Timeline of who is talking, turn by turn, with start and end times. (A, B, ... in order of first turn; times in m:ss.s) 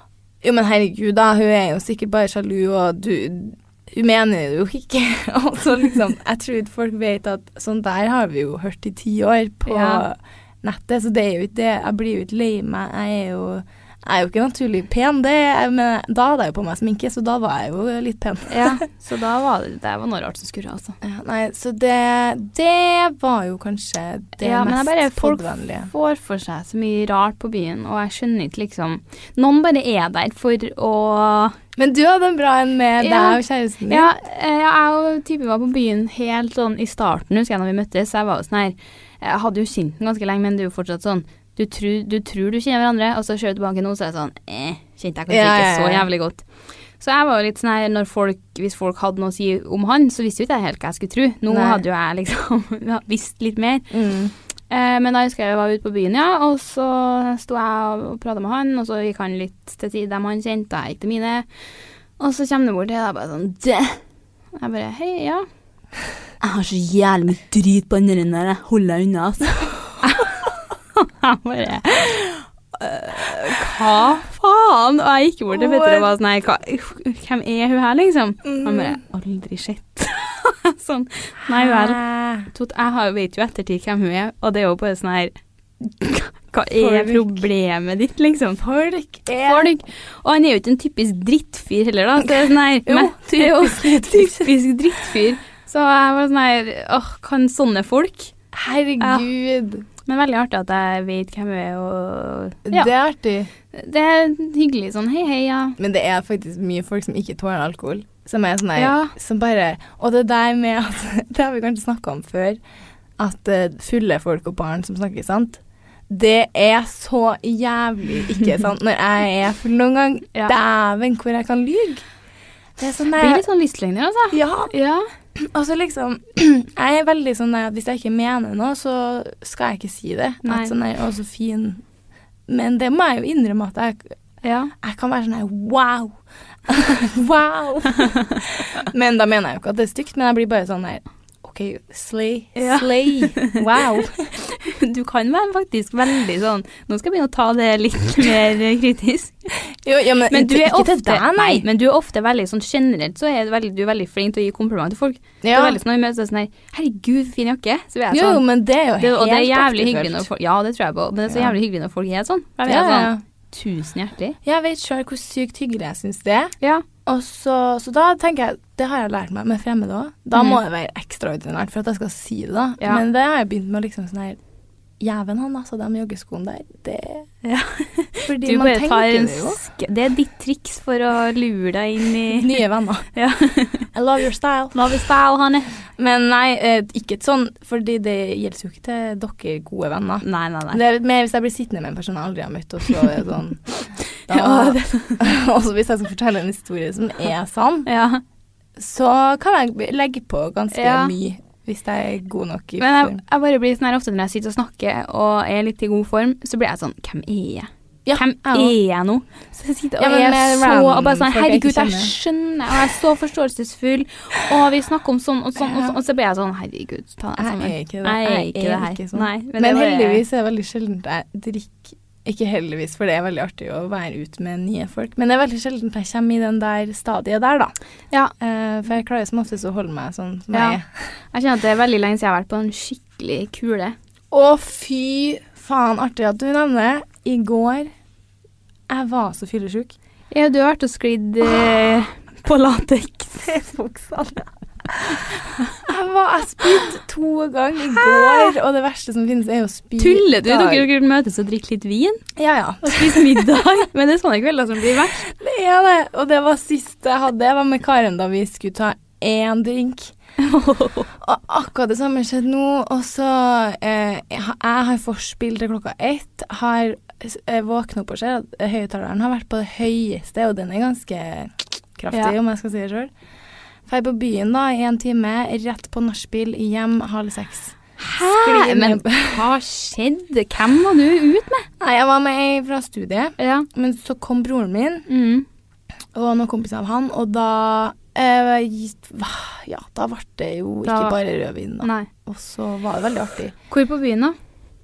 0:00.4-0:18.8 A
0:09.7-0:10.0 B
0:18.5-0:21.0 B
0:21.0-0:25.9 A
0:24.4-0:31.6 B
0:31.8-0:34.1 A
0:33.0-0:46.4 B
0:45.3-0:46.1 A
0:47.0-0:53.9 B
0:51.5-0:51.8 A
0:53.9-0:54.3 A
0:54.7-1:01.4 B
1:02.2-1:04.0 B
1:04.6-1:05.4 B
1:06.4-1:25.3 B
1:15.5-1:16.1 A
1:18.4-1:19.0 A
1:21.5-1:22.5 A
1:25.9-1:28.6 B
1:26.7-1:27.4 A
1:28.6-1:29.7 A
1:29.4-1:38.3 B
1:32.8-1:34.5 A
1:38.5-1:39.8 A
1:39.0-1:39.2 B
1:40.0-1:42.9 B
1:42.7-1:43.5 A
1:43.7-1:45.8 B
1:45.8-1:52.6 A
1:48.8-1:49.1 B
1:53.2-2:02.0 A
2:02.8-2:03.4 A
2:03.2-2:05.0 B
2:04.3-2:04.7 A
2:05.3-2:11.8 A
2:10.4-2:10.7 B
2:12.5-2:14.2 A
2:14.4-2:14.7 B
2:14.8-2:16.2 A
2:16.7-2:24.3 A
2:22.6-2:23.6 B
2:24.4-2:29.3 B
2:29.7-2:31.6 A
2:30.3-2:44.4 B
2:35.4-2:35.8 A
2:38.1-2:40.3 A
2:41.3-2:41.6 A
2:42.6-2:43.2 A
2:44.4-2:46.5 A
2:47.0-2:54.4 A
2:50.3-2:50.6 B
2:55.0-2:57.3 A
2:57.4-3:02.6 B
2:58.2-2:59.6 A
3:02.3-3:03.0 A
3:03.1-3:03.9 B
3:03.9-3:04.8 A
3:04.7-3:05.7 B
3:06.0-3:17.9 A
3:10.2-3:10.8 B
3:14.3-3:15.2 B
3:17.8-3:18.2 B
3:18.8-3:23.2 A
3:20.7-3:21.1 B
3:22.8-3:40.2 B
3:28.0-3:28.8 A
3:30.0-3:32.1 A
3:35.6-3:36.0 A
3:37.4-3:47.7 A
3:48.4-3:50.8 A
3:50.5-3:50.8 B
3:51.3-3:53.9 B
3:54.3-3:57.9 A
3:58.9-3:59.9 A
4:00.3-4:03.5 B
4:03.4-4:05.2 A
4:05.8-4:10.9 A
4:07.9-4:08.5 B
4:10.0-4:12.2 B
4:12.4-4:13.6 A
4:12.8-4:15.3 B
4:15.2-4:20.1 A
4:20.4-4:21.1 B
4:21.2-4:33.1 A
4:33.9-4:39.5 A
4:38.0-4:41.7 B
4:41.8-4:45.1 A
4:43.4-4:43.7 B
4:45.1-4:45.4 B
4:46.1-4:53.5 A
4:50.8-4:51.2 B
4:51.8-4:52.1 B
4:53.7-4:54.3 B